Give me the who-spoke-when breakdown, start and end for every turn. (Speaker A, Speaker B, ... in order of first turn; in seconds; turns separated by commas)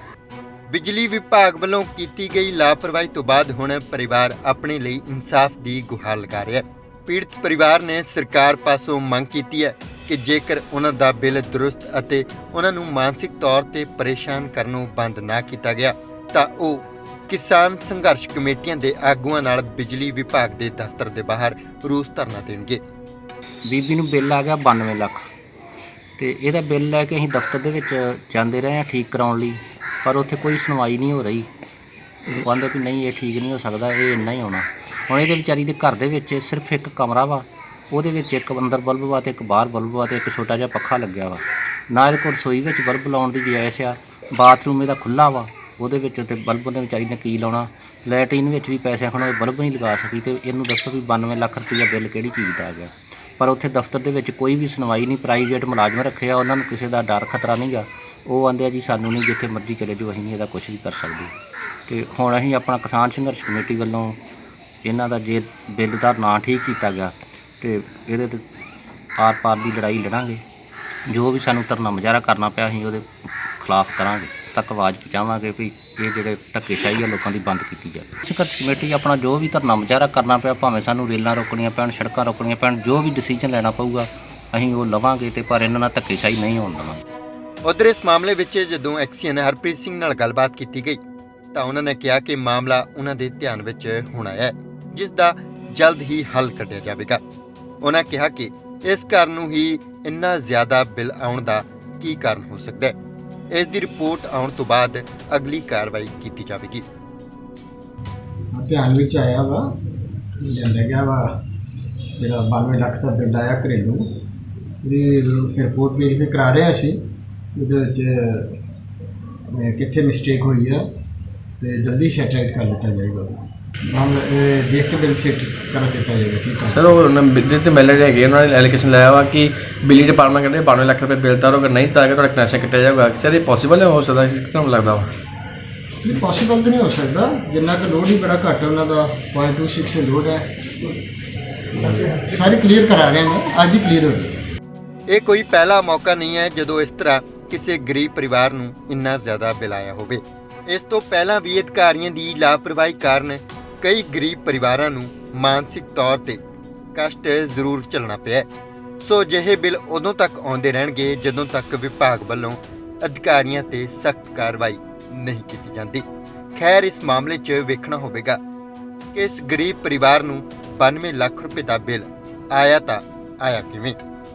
Speaker A: 0.7-22.8, Speaker B: 23.6-25.2, Speaker B: 26.2-31.5, Speaker B: 32.4-61.3, Speaker B: 61.9-64.2, Speaker B: 64.8-68.4, Speaker B: 69.2-70.4, Speaker B: 71.1-73.0, Speaker B: 73.6-87.0, Speaker A: 87.7-91.0, Speaker A: 91.5-97.2, Speaker A: 97.8-103.0, Speaker A: 103.5-106.8, Speaker C: 108.5-109.7, Speaker C: 110.4-111.3, Speaker C: 112.2-114.0, Speaker C: 114.8-117.0, Speaker C: 117.5-118.5, Speaker C: 119.5-120.8, Speaker C: 121.6-126.9, Speaker D: 126.7-135.1, Speaker C: 136.0-141.0, Speaker C: 141.7-144.4, Speaker A: 145.1-156.4, Speaker A: 156.9-158.5, Speaker A: 159.0-166.0, Speaker A: 166.5-168.4, Speaker A: 169.1-173.9